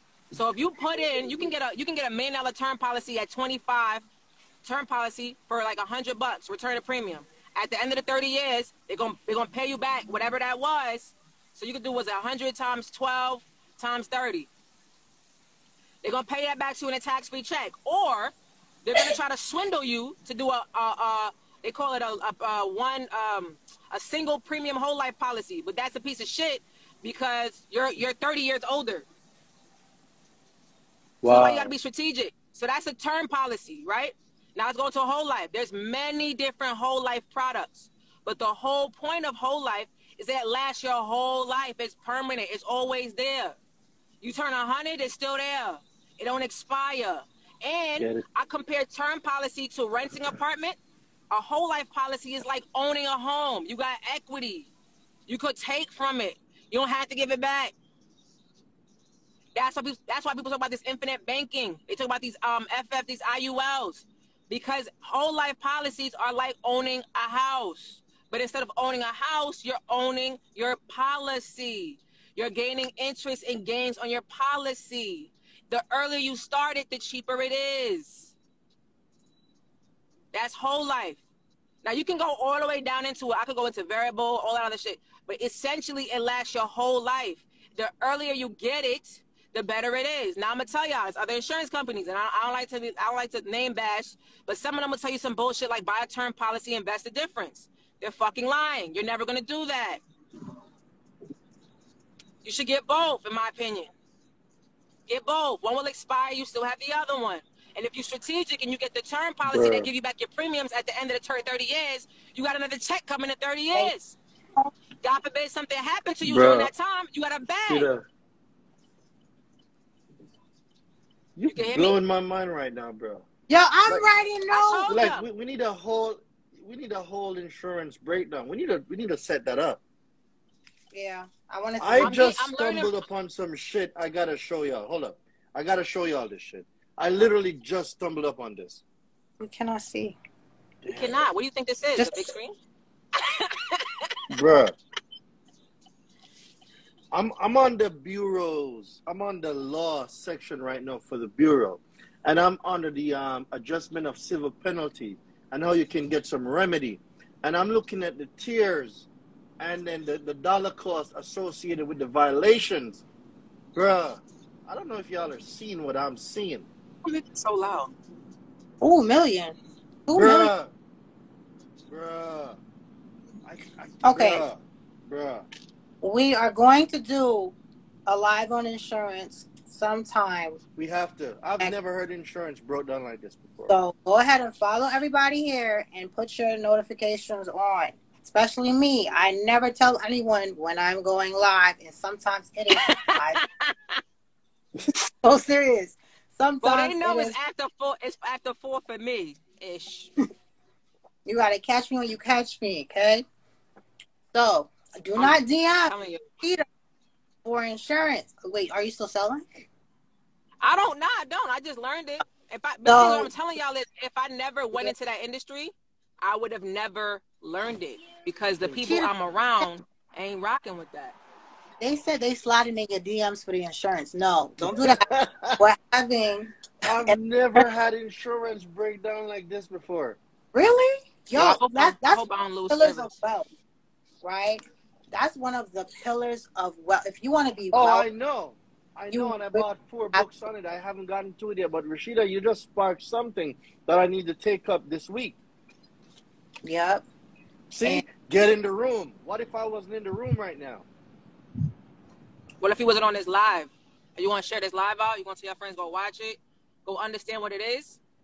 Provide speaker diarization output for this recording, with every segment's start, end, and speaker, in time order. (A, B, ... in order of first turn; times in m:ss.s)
0:00.3-0:04.0 A
0:04.6-0:14.5 A
0:16.0-0:29.1 A
0:31.2-0:31.7 B
0:31.3-0:43.6 A
0:44.2-0:50.8 A
0:48.0-0:48.2 B
0:51.3-0:54.7 A
0:55.3-0:57.7 A
0:59.6-1:18.3 A
1:20.3-1:21.2 A
1:21.8-1:40.0 A
1:42.4-1:43.9 A
1:45.1-1:54.2 A
1:49.5-1:49.9 B
1:55.0-1:57.9 A
1:56.2-1:56.7 B
1:57.7-1:58.0 B
2:01.4-2:03.3 B
2:01.5-2:02.0 A
2:03.5-2:04.9 C
2:04.5-2:05.2 A
2:04.9-2:09.8 B
2:10.9-2:12.2 C
2:11.8-2:18.8 B
2:12.0-2:13.0 A
2:19.4-2:20.2 C
2:20.8-2:21.1 B
2:20.9-2:22.6 A
2:22.0-2:22.3 C
2:23.2-2:24.1 A
2:24.3-2:24.8 B
2:27.1-2:39.1 B
2:39.6-2:43.0 B
2:43.8-2:46.7 B
2:47.0-2:47.9 A
2:48.8-2:49.6 C
2:50.1-2:50.5 C
2:50.2-2:50.7 B
2:51.9-2:52.6 B
2:53.5-2:55.5 B
2:54.0-2:54.5 C
2:56.0-2:57.6 C
2:58.1-3:00.6 C
3:00.8-3:03.8 B
3:03.7-3:13.4 C
3:12.7-3:14.0 A
3:15.2-3:17.4 C
3:16.6-3:20.1 A
3:21.3-3:23.2 C
3:24.3-3:26.6 C
3:25.2-3:26.3 A
3:27.4-3:29.6 C
3:30.6-3:41.2 A
3:32.8-3:33.3 C
3:38.7-3:39.1 C
3:41.8-3:45.0 C
3:44.6-3:45.6 B
3:45.6-3:47.6 C
3:46.8-3:50.2 B
3:50.5-3:53.5 C
3:51.3-3:53.1 A
3:54.2-3:58.1 C
3:57.7-4:05.4 B
3:59.1-4:00.2 C
4:06.6-4:07.0 C
4:07.7-4:10.9 B
4:12.6-4:18.0 A